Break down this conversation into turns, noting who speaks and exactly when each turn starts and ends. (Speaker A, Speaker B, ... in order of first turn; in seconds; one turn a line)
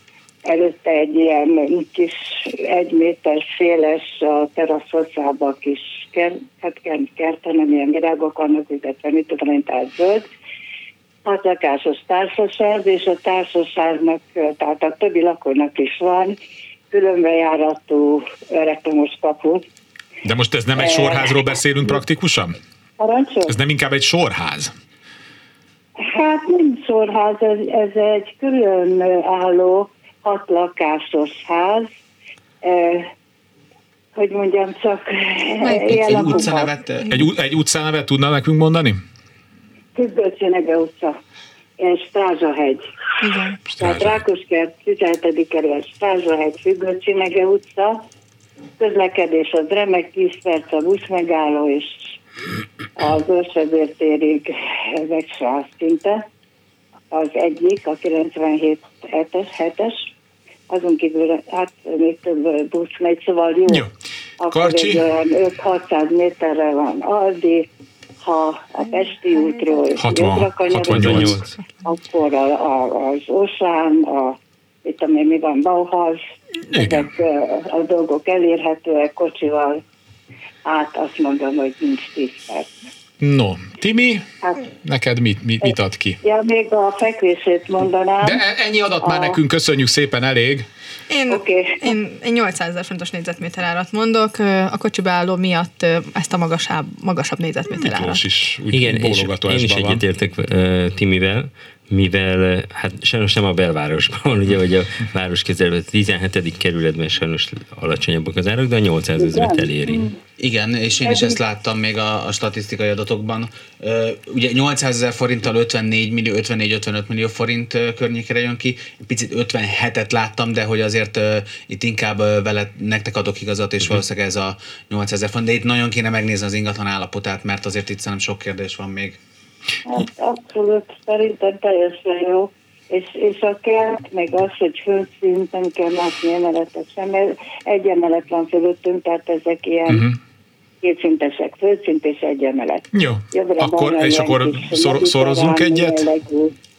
Speaker A: 0.4-10.2
Speaker A: 11.2-16.4
Speaker A: 16.9-19.6
Speaker B: 20.2-22.6
Speaker A: 20.8-21.4
Speaker A: 23.0-23.5
Speaker B: 23.5-24.7
Speaker A: 26.0-31.9
Speaker A: 32.6-33.1
Speaker A: 34.1-36.7
Speaker C: 35.7-36.4
Speaker D: 35.8-37.2
Speaker B: 37.1-39.0
Speaker A: 39.9-41.2
Speaker A: 41.8-42.8
Speaker C: 43.2-43.6
Speaker B: 43.7-44.2
Speaker A: 43.8-48.0
Speaker A: 48.8-52.1
Speaker A: 53.0-56.2
Speaker A: 57.1-60.1
Speaker A: 60.7-63.9
Speaker A: 64.4-67.7
Speaker B: 64.5-65.0
Speaker A: 68.2-79.8
Speaker B: 70.0-71.4
Speaker E: 70.9-71.5
Speaker B: 76.7-77.1
Speaker A: 80.6-82.7
Speaker B: 83.2-84.3
Speaker B: 84.8-86.2
Speaker A: 85.6-88.4
Speaker B: 88.2-90.7
Speaker A: 89.0-89.4
Speaker C: 91.1-98.2
Speaker A: 91.3-91.9
Speaker B: 97.7-100.0
Speaker E: 98.7-110.1
Speaker A: 109.2-110.2
Speaker D: 110.4-129.2
Speaker A: 111.1-111.3
Speaker A: 129.8-140.1
Speaker A: 140.8-146.5
Speaker B: 142.9-146.1